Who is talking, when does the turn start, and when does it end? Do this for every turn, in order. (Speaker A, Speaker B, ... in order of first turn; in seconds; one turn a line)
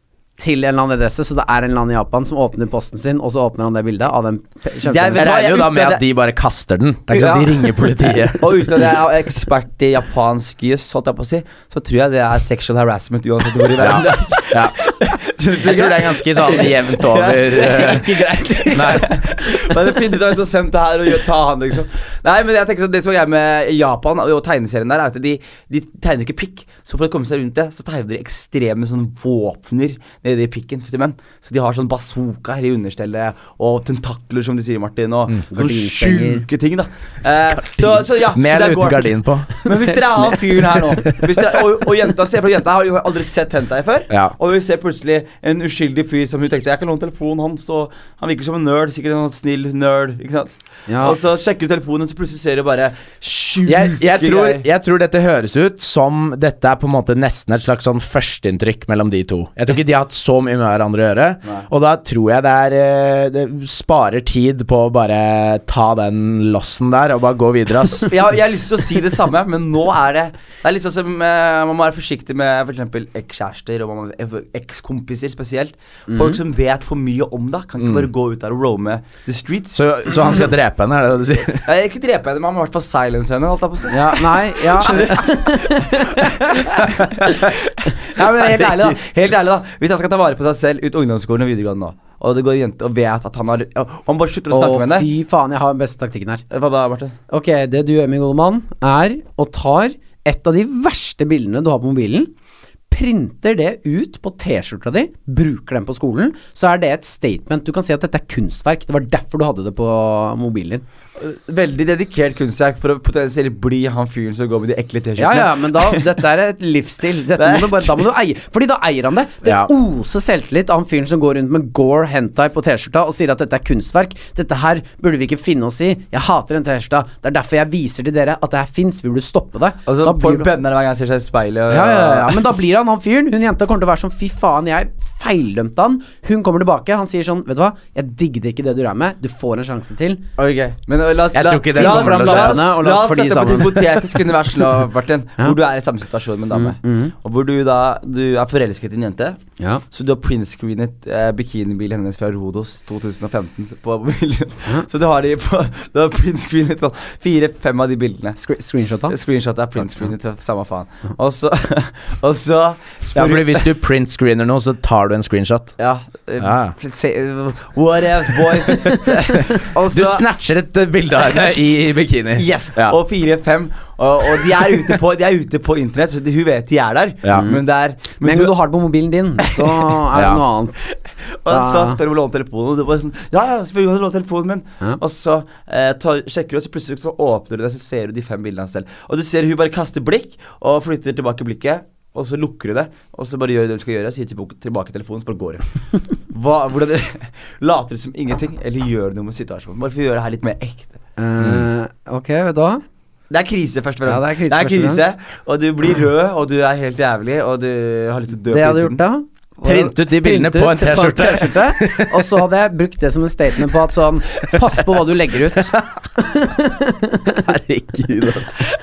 Speaker A: 0.4-5.3
Speaker B: 4.8-6.0
Speaker C: 5.2-8.6
Speaker B: 7.1-54.6
Speaker C: 13.8-14.8
Speaker C: 15.5-18.2
Speaker A: 17.6-19.7
Speaker C: 18.7-19.1
Speaker A: 35.5-36.5
Speaker C: 37.7-39.5
Speaker A: 39.7-41.2
Speaker C: 44.1-44.3
Speaker A: 50.9-51.2
Speaker C: 53.6-68.1
Speaker B: 68.0-79.8
Speaker A: 76.1-76.4
Speaker C: 77.8-78.1
Speaker C: 79.7-81.7
Speaker B: 81.6-95.1
Speaker A: 83.9-86.8
Speaker C: 88.4-89.0
Speaker A: 94.5-96.4
Speaker B: 96.5-97.1
Speaker A: 97.3-102.3
Speaker A: 102.9-110.8
Speaker B: 111.2-116.2
Speaker A: 115.2-130.5
Speaker B: 117.3-118.0
Speaker C: 119.4-119.7
Speaker B: 129.8-132.4
Speaker A: 131.7-140.2
Speaker B: 140.4-158.4
Speaker C: 141.3-142.7
Speaker A: 141.7-144.2
Speaker A: 146.5-147.1
Speaker A: 158.4-159.1
Speaker B: 159.1-163.7
Speaker C: 163.1-165.7
Speaker B: 165.8-170.2
Speaker C: 166.4-166.7
Speaker C: 169.1-172.9
Speaker B: 172.3-178.5
Speaker C: 177.2-177.5
Speaker A: 177.3-177.6
Speaker A: 178.2-180.9
Speaker B: 179.4-179.9
Speaker C: 180.1-180.4
Speaker B: 181.2-201.0
Speaker A: 181.5-182.0
Speaker A: 201.2-202.8
Speaker C: 201.4-201.7
Speaker B: 203.3-209.0
Speaker A: 204.1-205.0
Speaker A: 208.5-217.5
Speaker C: 209.6-212.3
Speaker C: 217.4-218.6